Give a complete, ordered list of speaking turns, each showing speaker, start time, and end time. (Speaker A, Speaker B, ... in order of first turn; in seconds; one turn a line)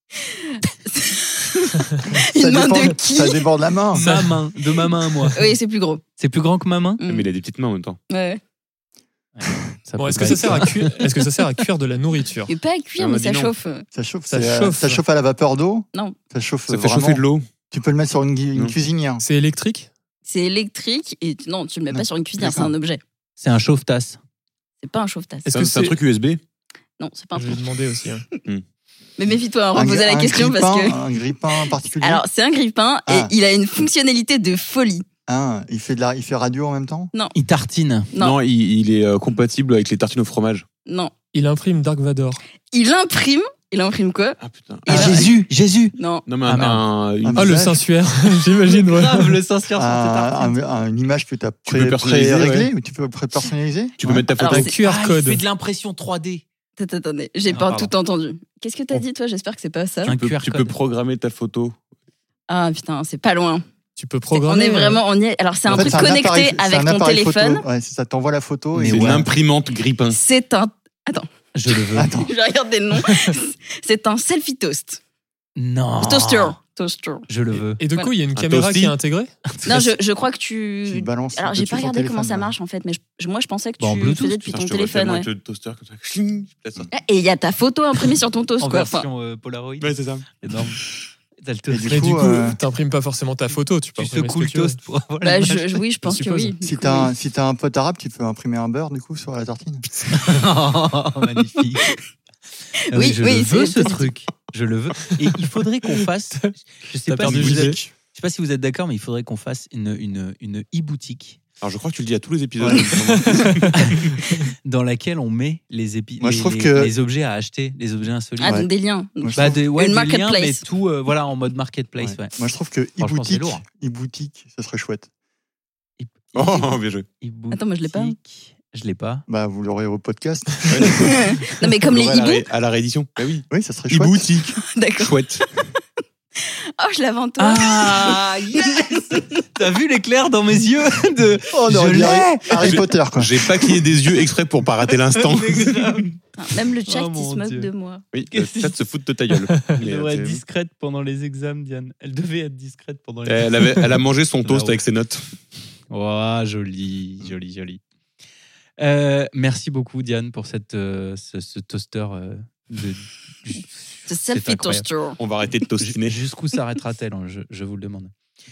Speaker A: 0.2-3.5
Speaker B: 2.2-4.0
Speaker C: 3.9-5.4
Speaker D: 4.0-4.5
Speaker A: 5.3-6.0
Speaker C: 6.2-7.0
Speaker A: 7.0-7.3
Speaker E: 7.1-8.0
Speaker A: 8.1-8.4
Speaker C: 9.3-11.1
Speaker D: 10.0-12.5
Speaker A: 12.5-13.8
Speaker E: 13.0-13.5
Speaker B: 13.9-19.2
Speaker D: 14.3-15.0
Speaker E: 16.7-17.4
Speaker D: 19.2-19.9
Speaker A: 20.3-23.0
Speaker B: 21.9-22.7
Speaker C: 23.4-24.2
Speaker A: 24.8-25.5
Speaker D: 25.4-25.9
Speaker E: 25.5-26.4
Speaker A: 27.0-27.6
Speaker D: 27.3-28.3
Speaker A: 29.2-31.0
Speaker B: 29.7-32.2
Speaker A: 32.0-35.0
Speaker B: 33.1-33.3
Speaker B: 35.3-37.1
Speaker C: 37.3-38.1
Speaker E: 38.2-40.6
Speaker A: 40.9-41.1
Speaker D: 41.3-42.4
Speaker A: 42.7-45.3
Speaker E: 44.4-45.3
Speaker C: 44.9-45.9
Speaker A: 46.0-46.2
Speaker E: 46.2-47.7
Speaker C: 46.4-46.8
Speaker B: 47.2-47.8
Speaker D: 47.4-49.4
Speaker C: 48.6-50.5
Speaker B: 49.8-54.3
Speaker E: 51.7-52.7
Speaker E: 54.0-54.7
Speaker A: 54.4-54.7
Speaker D: 54.5-55.4
Speaker C: 54.8-56.4
Speaker A: 56.8-60.1
Speaker C: 57.5-57.9
Speaker C: 60.0-60.7
Speaker E: 60.1-61.8
Speaker A: 62.5-63.6
Speaker D: 64.0-65.0
Speaker A: 64.3-67.6
Speaker B: 65.7-69.3
Speaker C: 68.7-69.2
Speaker E: 68.8-70.2
Speaker A: 70.1-75.0
Speaker C: 71.5-72.2
Speaker B: 71.9-72.3
Speaker C: 75.5-76.6
Speaker A: 76.0-77.3
Speaker C: 77.3-77.8
Speaker D: 77.8-79.3
Speaker E: 78.3-78.9
Speaker C: 79.6-79.9
Speaker A: 79.7-85.3
Speaker B: 80.8-82.5
Speaker C: 83.8-84.4
Speaker E: 84.4-86.9
Speaker A: 86.9-89.1
Speaker C: 88.6-90.8
Speaker E: 89.8-90.2
Speaker C: 91.4-92.3
Speaker B: 91.7-92.6
Speaker D: 91.9-94.8
Speaker C: 94.0-95.8
Speaker A: 95.2-97.1
Speaker D: 96.0-96.5
Speaker B: 96.6-99.8
Speaker C: 100.1-101.9
Speaker C: 102.9-111.4
Speaker A: 102.9-104.1
Speaker D: 107.1-107.8
Speaker B: 107.3-107.9
Speaker E: 111.6-114.1
Speaker B: 112.6-112.8
Speaker D: 113.2-113.9
Speaker C: 113.7-114.1
Speaker C: 114.6-118.6
Speaker B: 116.2-116.9
Speaker A: 118.4-120.6
Speaker B: 119.2-119.5
Speaker C: 119.3-122.3
Speaker B: 122.0-125.1
Speaker C: 123.0-123.6
Speaker C: 126.0-129.2
Speaker E: 126.3-127.0
Speaker A: 127.5-128.2
Speaker B: 129.3-131.2
Speaker E: 130.7-135.4
Speaker A: 131.0-132.5
Speaker B: 133.5-134.6
Speaker A: 134.7-135.7
Speaker A: 136.4-139.3
Speaker C: 137.4-142.8
Speaker B: 141.5-143.5
Speaker E: 142.6-146.0
Speaker C: 145.1-146.2
Speaker A: 146.4-148.0
Speaker C: 146.9-147.7
Speaker E: 148.1-150.4
Speaker C: 148.3-148.7
Speaker D: 149.5-149.8
Speaker C: 149.7-153.9
Speaker E: 153.2-155.3
Speaker C: 154.4-154.8
Speaker C: 155.9-157.8
Speaker C: 158.8-164.9
Speaker A: 164.1-165.2
Speaker E: 165.2-166.2
Speaker C: 165.8-168.1